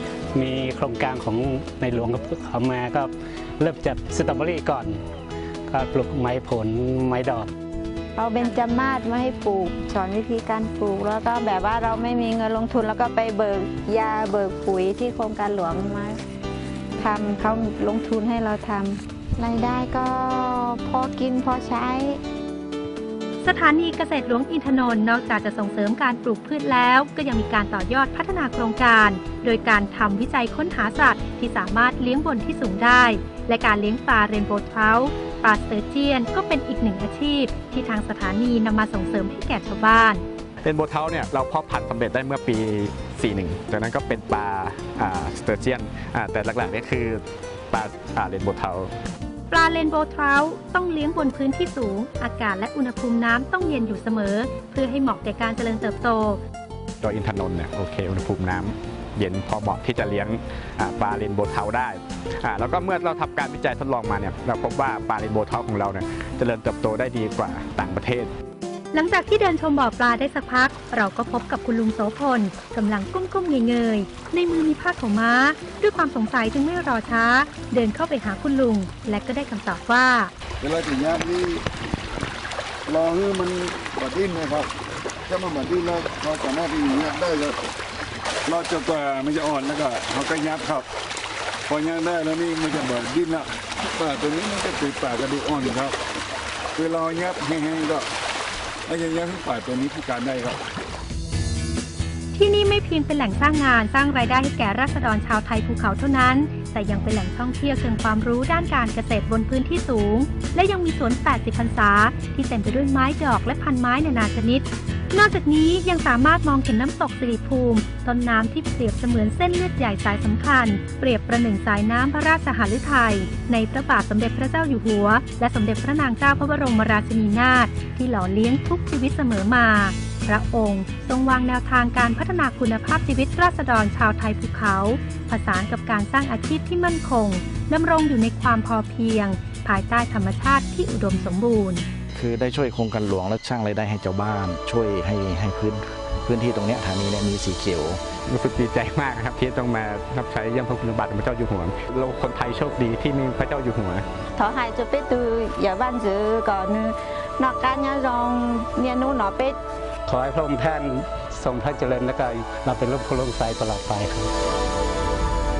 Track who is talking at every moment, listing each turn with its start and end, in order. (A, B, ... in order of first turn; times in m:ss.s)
0:00.3-0:05.0 A
0:05.7-0:07.5 A
0:08.2-0:16.2 B
0:17.0-0:22.2 B
0:23.4-0:40.2 C
0:40.6-0:48.9 D
0:49.5-0:56.4 C
0:57.0-1:08.3 D
1:08.9-1:20.3 C
1:20.6-1:21.6 E
1:22.9-1:24.7 E
1:25.3-1:27.6 E
1:28.4-1:30.9 E
1:31.7-1:36.0 E
1:36.8-1:38.1 E
1:38.8-1:40.6 E
1:42.3-2:21.8 C
2:22.1-2:28.0 F
2:28.2-2:34.0 D
2:34.4-2:39.6 B
2:40.0-2:44.3 A